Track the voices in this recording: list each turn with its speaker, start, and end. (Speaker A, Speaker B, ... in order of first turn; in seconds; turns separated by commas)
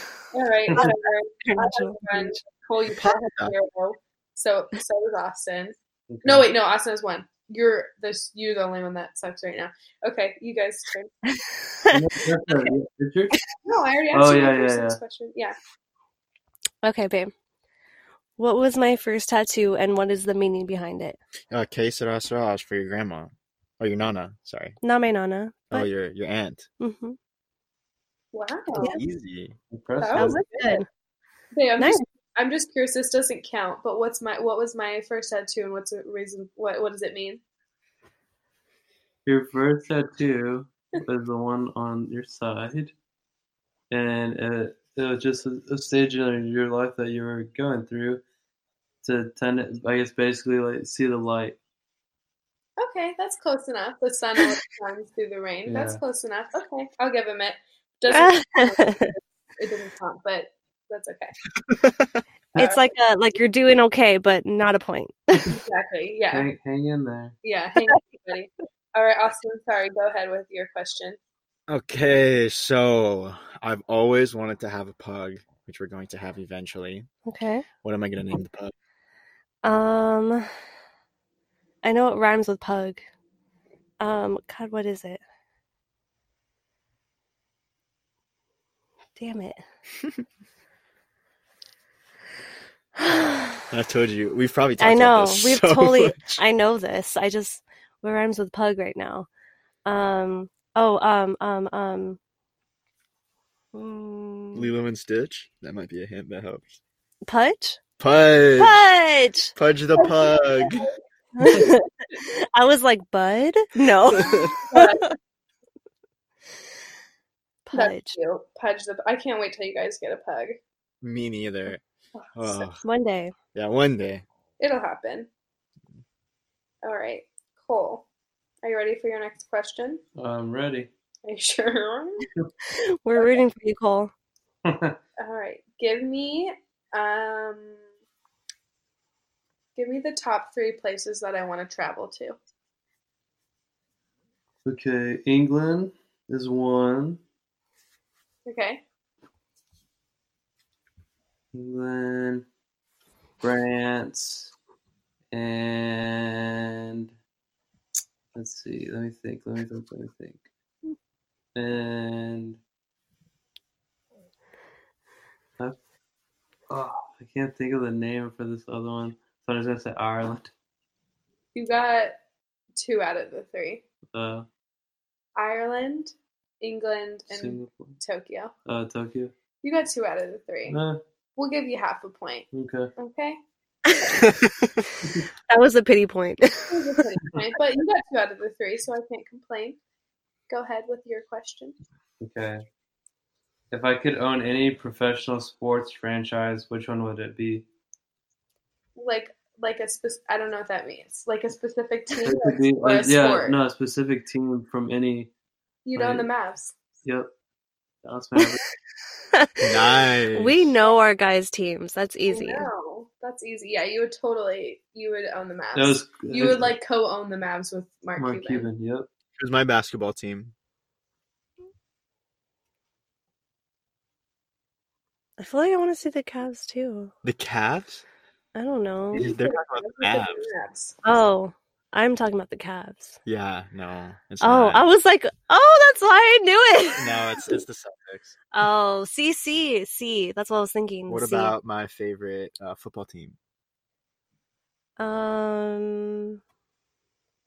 Speaker A: 0.3-11.1, Speaker B: 0.7-2.4, Speaker C: 2.9-3.5, Speaker D: 6.1-6.5, Speaker B: 11.3-11.9, Speaker D: 11.9-13.4, Speaker A: 13.6-15.6, Speaker D: 14.1-15.0, Speaker B: 16.8-17.3, Speaker B: 18.4-21.2, Speaker C: 21.5-24.8, Speaker B: 24.8-25.9, Speaker C: 25.7-26.7, Speaker B: 26.8-27.2, Speaker A: 28.3-28.9, Speaker C: 28.8-29.6, Speaker D: 29.7-30.4, Speaker A: 30.0-30.8, Speaker B: 30.1-30.9, Speaker A: 31.5-37.4, Speaker D: 39.2-42.9, Speaker D: 43.9-48.2, Speaker D: 49.0-51.6, Speaker A: 52.8-61.3, Speaker D: 55.6-56.0, Speaker B: 58.1-59.0, Speaker C: 61.6-62.2, Speaker A: 62.5-62.8, Speaker B: 62.5-65.5, Speaker A: 65.5-66.5, Speaker D: 66.3-67.3, Speaker A: 67.4-71.2, Speaker C: 71.7-77.1, Speaker B: 77.2-77.6, Speaker C: 77.8-78.7, Speaker B: 79.6-80.5, Speaker B: 81.8-83.0, Speaker B: 84.0-85.2, Speaker B: 89.2-89.6, Speaker B: 93.0-93.6, Speaker C: 93.7-96.4, Speaker B: 94.8-99.3, Speaker B: 99.8-102.2, Speaker B: 103.7-104.7, Speaker C: 104.5-106.8, Speaker B: 107.3-107.8, Speaker C: 108.0-108.8, Speaker B: 108.6-109.5, Speaker C: 109.5-110.9, Speaker A: 110.0-110.9, Speaker B: 111.4-115.1, Speaker C: 114.1-114.5, Speaker A: 114.5-115.2, Speaker B: 117.7-118.2, Speaker A: 117.7-120.6, Speaker C: 121.0-121.8, Speaker A: 122.1-122.6, Speaker C: 122.3-122.8, Speaker B: 122.8-123.3, Speaker C: 123.5-124.2, Speaker A: 124.6-125.3, Speaker A: 126.8-128.1, Speaker A: 128.6-130.0, Speaker D: 130.2-130.9, Speaker A: 131.2-132.3, Speaker B: 132.8-134.1, Speaker D: 134.6-134.9, Speaker A: 135.2-137.8, Speaker A: 139.8-142.4, Speaker D: 144.6-147.2, Speaker A: 148.4-148.8, Speaker D: 151.5-152.4, Speaker D: 153.4-154.5, Speaker D: 155.3-157.1, Speaker D: 158.3-160.4, Speaker D: 161.5-162.6, Speaker D: 166.7-170.5, Speaker A: 171.5-172.2, Speaker A: 172.8-173.8, Speaker D: 174.1-174.4, Speaker A: 175.3-178.5, Speaker D: 177.3-177.9, Speaker D: 178.7-179.3, Speaker A: 179.6-180.8, Speaker D: 180.7-181.0, Speaker A: 181.3-183.4, Speaker D: 182.5-182.9, Speaker C: 184.2-184.8, Speaker B: 185.5-186.8, Speaker A: 186.7-189.8, Speaker A: 190.5-191.7, Speaker D: 192.2-192.7, Speaker D: 193.7-197.6, Speaker A: 198.9-203.6, Speaker D: 202.2-205.3, Speaker A: 205.8-206.7, Speaker D: 205.9-206.3, Speaker D: 207.0-207.3, Speaker D: 208.0-208.6, Speaker C: 209.6-210.7, Speaker B: 210.3-212.7, Speaker A: 212.3-218.7, Speaker D: 215.7-216.7, Speaker D: 218.2-219.1, Speaker C: 219.4-220.5, Speaker B: 225.4-227.1, Speaker C: 227.2-228.0, Speaker B: 228.5-229.3, Speaker A: 229.1-230.9, Speaker C: 229.1-230.5, Speaker B: 231.0-233.2, Speaker C: 233.2-234.8, Speaker B: 234.4-237.2, Speaker C: 236.9-238.3, Speaker B: 238.5-241.5, Speaker C: 241.1-243.4, Speaker B: 245.0-246.4